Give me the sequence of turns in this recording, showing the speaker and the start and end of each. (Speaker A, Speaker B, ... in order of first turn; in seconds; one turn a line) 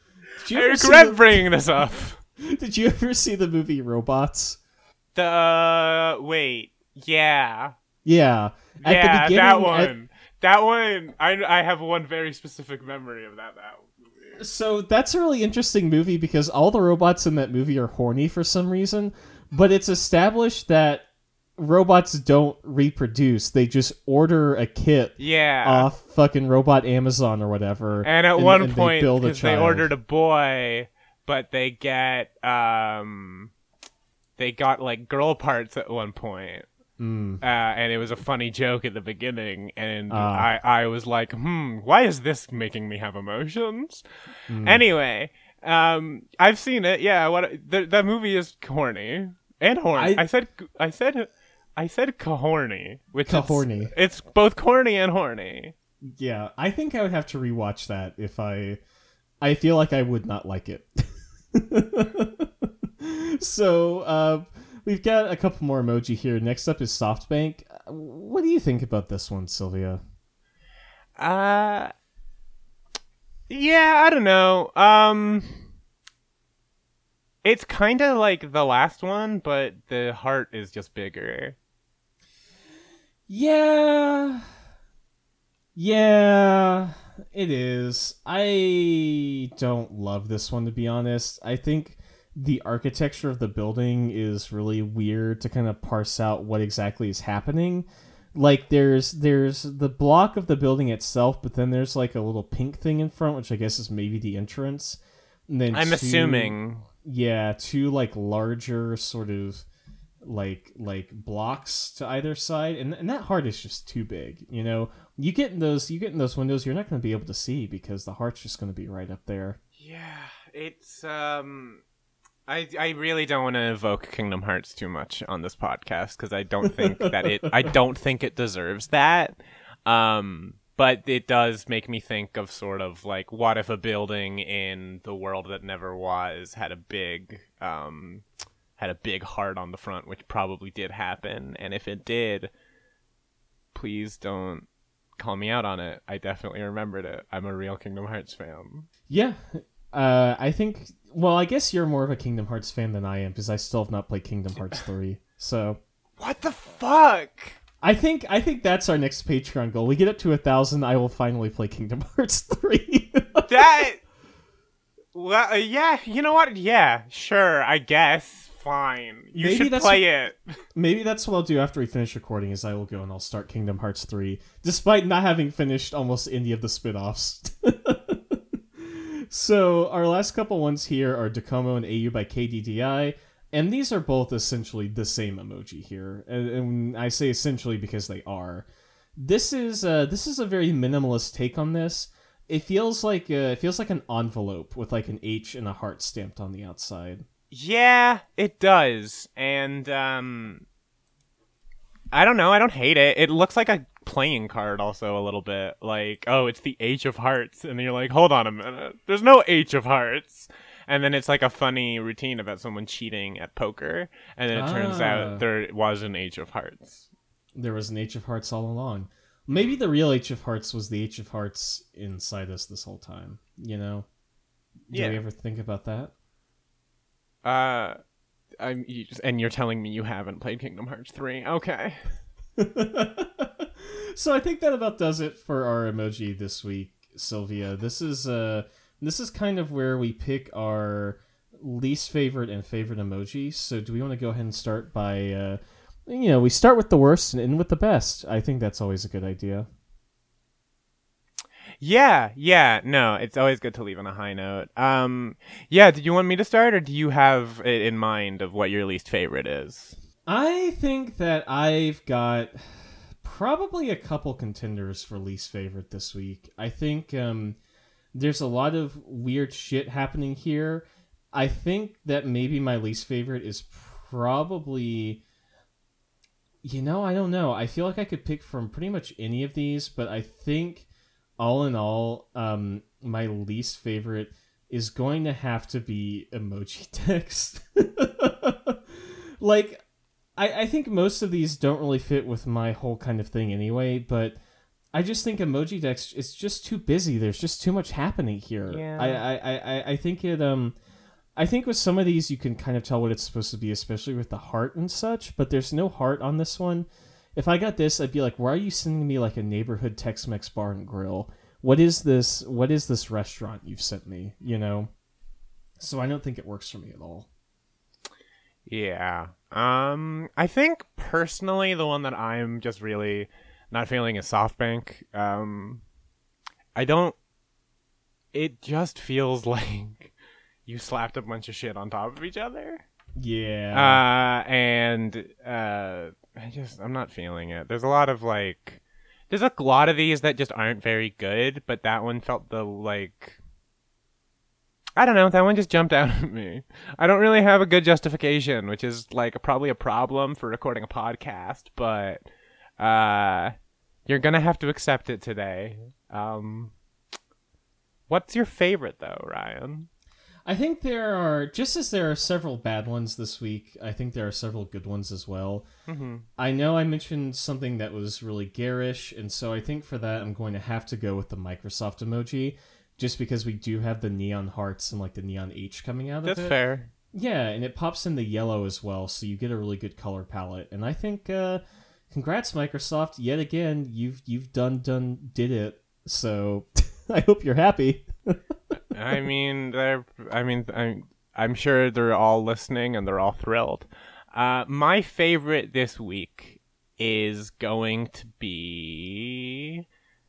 Speaker A: 0.4-1.5
Speaker B: 0.5-2.2
Speaker A: 2.4-4.6
Speaker B: 5.1-7.7
Speaker A: 8.0-9.9
Speaker B: 8.8-14.4
Speaker A: 14.4-21.1
Speaker A: 21.6-29.9
Speaker B: 25.2-25.9
Speaker B: 28.0-33.5
Speaker B: 34.4-36.7
Speaker A: 37.0-37.4
Speaker B: 37.4-44.0
Speaker A: 40.1-40.5
Speaker A: 44.5-44.8
Speaker B: 44.6-55.7
Speaker A: 49.9-50.2
Speaker A: 53.2-53.9
Speaker A: 56.0-58.8
Speaker A: 59.4-61.0
Speaker A: 61.5-70.0
Speaker B: 71.2-71.9
Speaker B: 73.5-75.6
Speaker B: 77.4-81.5
Speaker A: 83.3-84.4
Speaker A: 85.8-109.7
Speaker B: 105.7-106.8
Speaker A: 110.2-119.6
Speaker B: 119.8-121.8
Speaker B: 122.5-138.2
Speaker A: 126.9-127.5
Speaker B: 138.8-142.5
Speaker B: 143.7-144.7
Speaker B: 145.2-148.9
Speaker A: 149.1-155.8
Speaker B: 156.2-157.6
Speaker A: 157.8-163.8
Speaker B: 163.5-164.0
Speaker B: 165.1-170.5
Speaker A: 169.3-170.0
Speaker A: 170.7-197.2
Speaker B: 197.5-200.6
Speaker B: 202.1-217.1
Speaker A: 214.5-215.4
Speaker A: 217.6-224.1
Speaker A: 224.9-226.1
Speaker B: 224.9-225.2
Speaker B: 227.4-228.0
Speaker B: 228.6-232.0
Speaker A: 232.6-249.7
Speaker B: 251.8-260.0
Speaker A: 260.3-267.6
Speaker A: 268.1-275.2
Speaker A: 276.6-280.9
Speaker A: 281.4-288.8
Speaker A: 289.4-289.8
Speaker A: 290.4-294.4
Speaker A: 294.9-300.8
Speaker B: 298.7-299.2
Speaker A: 301.4-314.9
Speaker A: 315.8-317.3
Speaker B: 318.7-325.8
Speaker B: 326.7-327.1
Speaker B: 328.3-330.1
Speaker B: 330.6-332.8
Speaker A: 333.2-334.0
Speaker B: 333.7-343.4
Speaker B: 345.0-352.2
Speaker B: 352.8-353.5
Speaker B: 354.1-356.7
Speaker B: 358.1-359.9
Speaker A: 360.4-365.7
Speaker B: 365.9-366.2
Speaker A: 366.4-376.6
Speaker B: 376.2-376.9
Speaker A: 377.1-388.4
Speaker B: 388.9-399.8